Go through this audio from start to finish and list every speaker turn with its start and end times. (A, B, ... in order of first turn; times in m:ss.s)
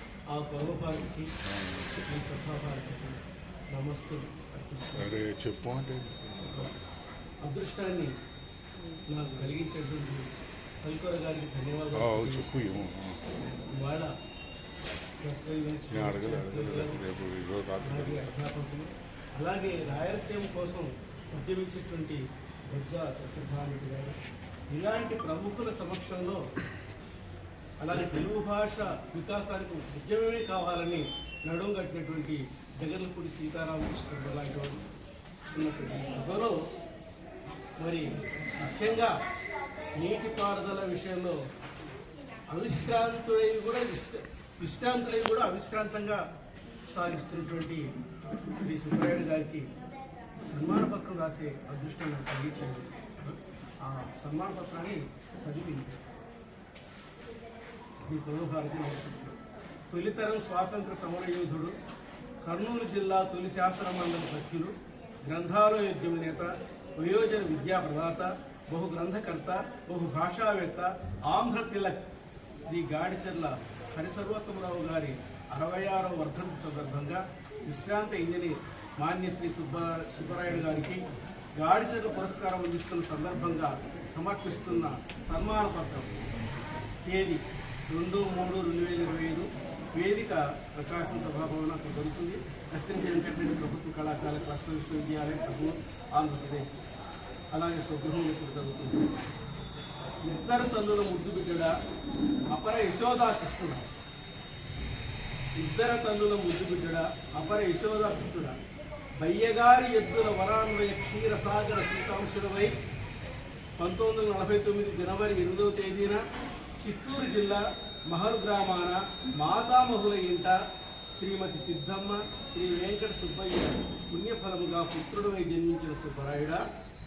0:00.3-0:01.3 A
0:01.4-0:02.2 B
0:02.1-0:05.2 A
0:04.9-0:06.7 B
0:06.4-0:06.8 A
0:07.4-0:08.1 A
0:09.1-0:10.3 A
0:10.8-0:12.7 A
0:12.0-0:13.2 B
0:13.5-0:14.1 A
0:15.2-0:17.0 A
0:15.9-0:18.3 B
0:17.8-0:24.2 A
0:24.7-0:26.4 A
0:27.8-0:34.8 A
0:35.5-0:36.6 A
0:37.8-0:39.2 A
0:40.0-0:41.4 A
0:42.5-0:46.2 A
0:46.9-0:47.9 A
0:48.5-0:49.7 A
0:50.5-0:56.1 A
0:58.0-0:59.4 A
0:59.9-1:01.8 A
1:02.4-1:04.7 A
1:05.2-1:12.1 A
1:12.6-1:21.0 A
1:21.6-1:26.1 A
1:27.0-1:36.8 A
1:37.5-1:39.1 A
1:40.3-1:41.7 A
1:42.5-1:43.9 A
1:45.6-1:48.6 A
1:49.2-1:52.7 A
1:53.8-1:56.2 A
1:56.8-2:00.6 A
2:01.2-2:06.7 A